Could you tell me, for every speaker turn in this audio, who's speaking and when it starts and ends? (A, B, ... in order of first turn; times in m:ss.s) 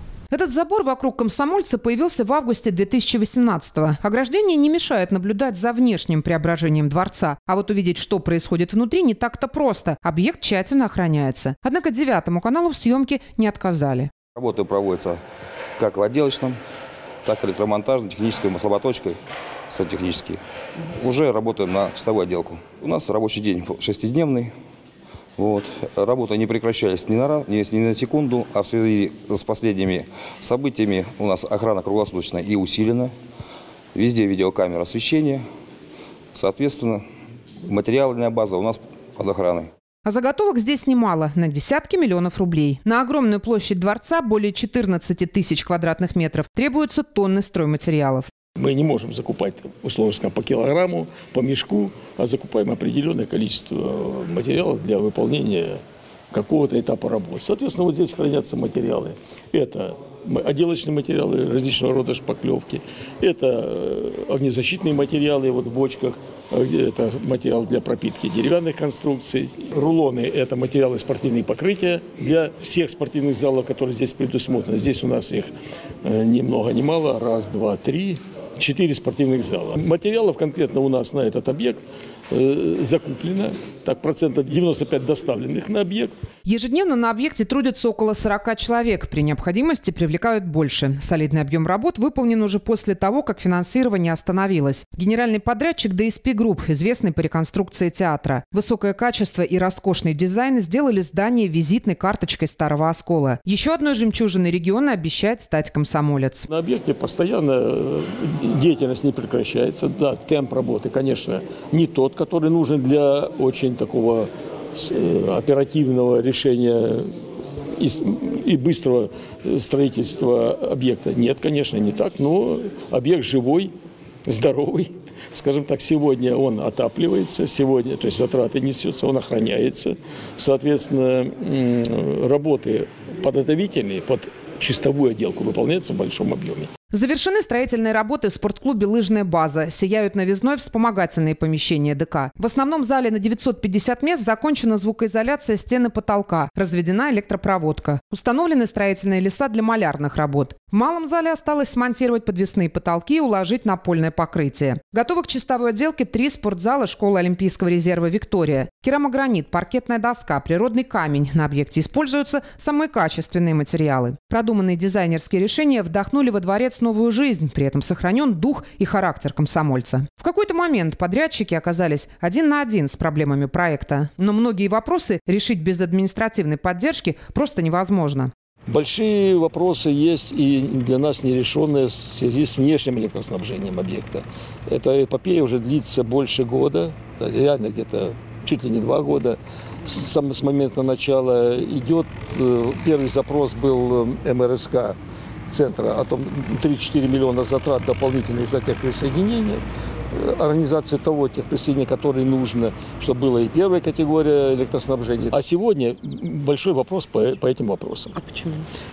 0:00.3-0:14.1 A
0:14.3-0:15.2 B
0:15.8-0:16.6 B
0:17.2-0:19.2 B
0:19.7-0:20.4 B
0:21.0-0:24.5 B
0:25.4-0:33.1 B
0:33.9-0:35.4 B
0:36.3-0:37.0 B
0:37.6-0:39.7 B
0:40.0-0:48.3 A
0:48.6-0:55.8 C
0:56.3-1:15.5 C
1:16.0-1:26.1 C
1:26.4-1:46.5 A
1:46.5-1:57.1 C
1:57.8-2:03.7 C
2:04.3-2:16.7 C
2:16.9-2:58.3 A
2:58.7-3:15.0 C
3:15.5-3:28.2 C
3:28.2-3:28.6 A